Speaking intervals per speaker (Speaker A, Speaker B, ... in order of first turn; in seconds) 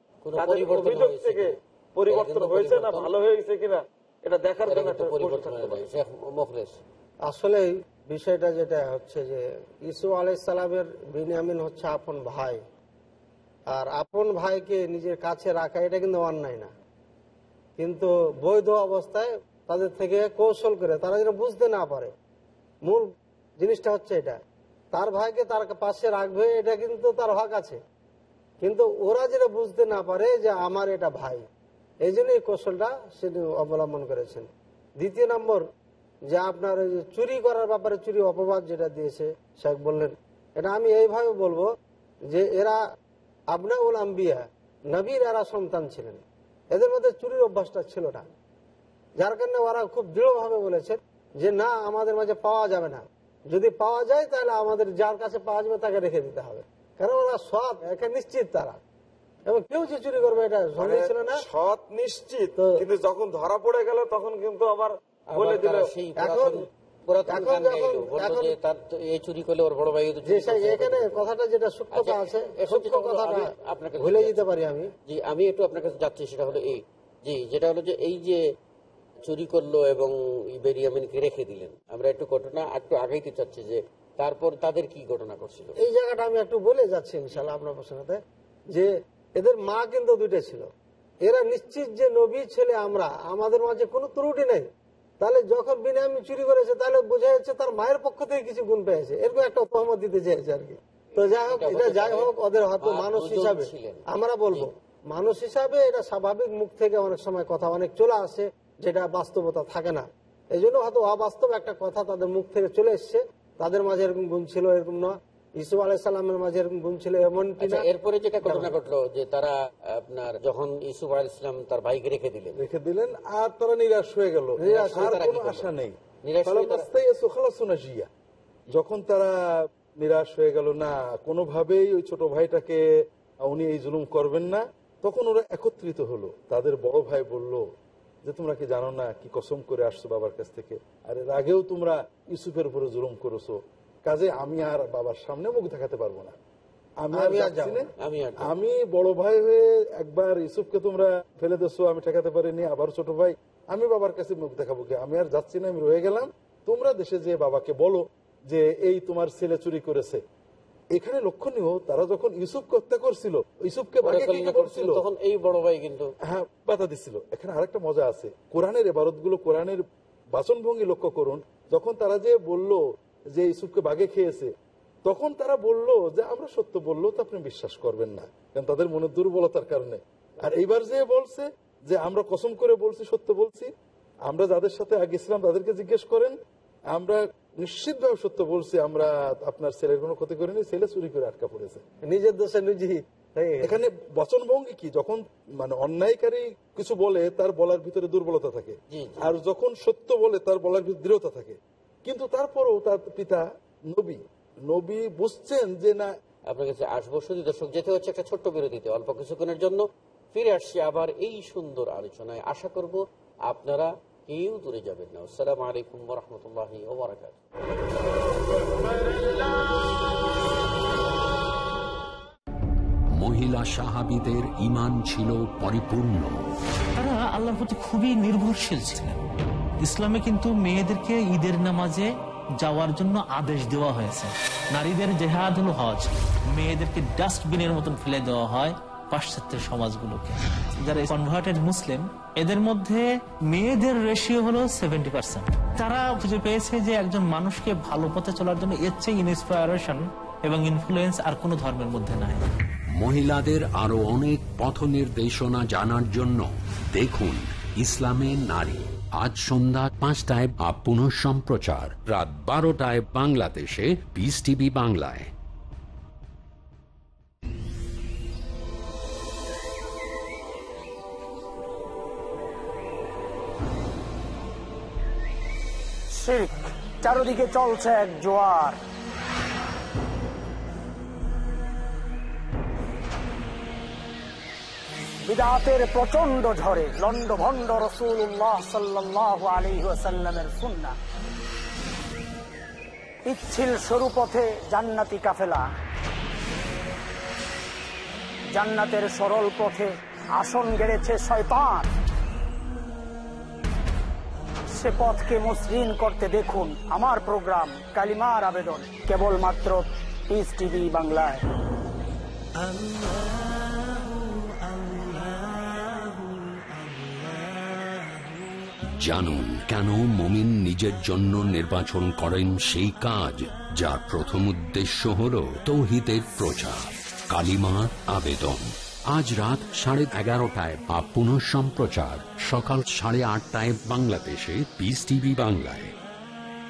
Speaker A: 0.2-1.6, 2.1-3.1, 4.7-6.8, 65.3-71.2, 71.9-74.5, 75.1-78.4, 79.2-85.8, 101.5-104.7, 117.6-122.6, 124.6-125.7, 126.2-126.9, 148.0-148.4, 164.0-166.1, 198.9-199.3, 206.5-217.4
Speaker B: 0.4-5.8, 60.8-65.9
Speaker C: 7.3-12.6, 13.7-16.7, 17.8-22.1, 22.9-24.4, 24.9-27.8, 28.6-31.4, 32.0-35.7, 36.3-41.7, 42.3-42.8, 43.5-48.3, 49.2-58.8, 59.5-61.4, 66.2-66.6, 67.3-68.5, 70.2-74.9, 85.8-90.7, 91.2-94.7, 95.2-117.9, 118.4-118.7, 124.7-125.0, 147.1-147.8, 192.1-193.8
Speaker D: 122.6-128.1, 128.7-129.3, 130.0-132.8, 133.4-137.7, 138.2-146.3, 147.0-147.9, 148.4-160.2, 160.9-165.0, 166.2-172.8, 173.3-174.5, 175.1-183.7, 184.3-186.4, 186.9-191.8, 193.6-206.1
Speaker E: 223.1-226.5, 252.9-265.3, 318.9-335.9
Speaker F: 227.0-229.2, 229.8-252.4
Speaker G: 276.1-278.8, 285.2-290.9, 293.2-295.7, 298.5-301.9, 304.7-311.4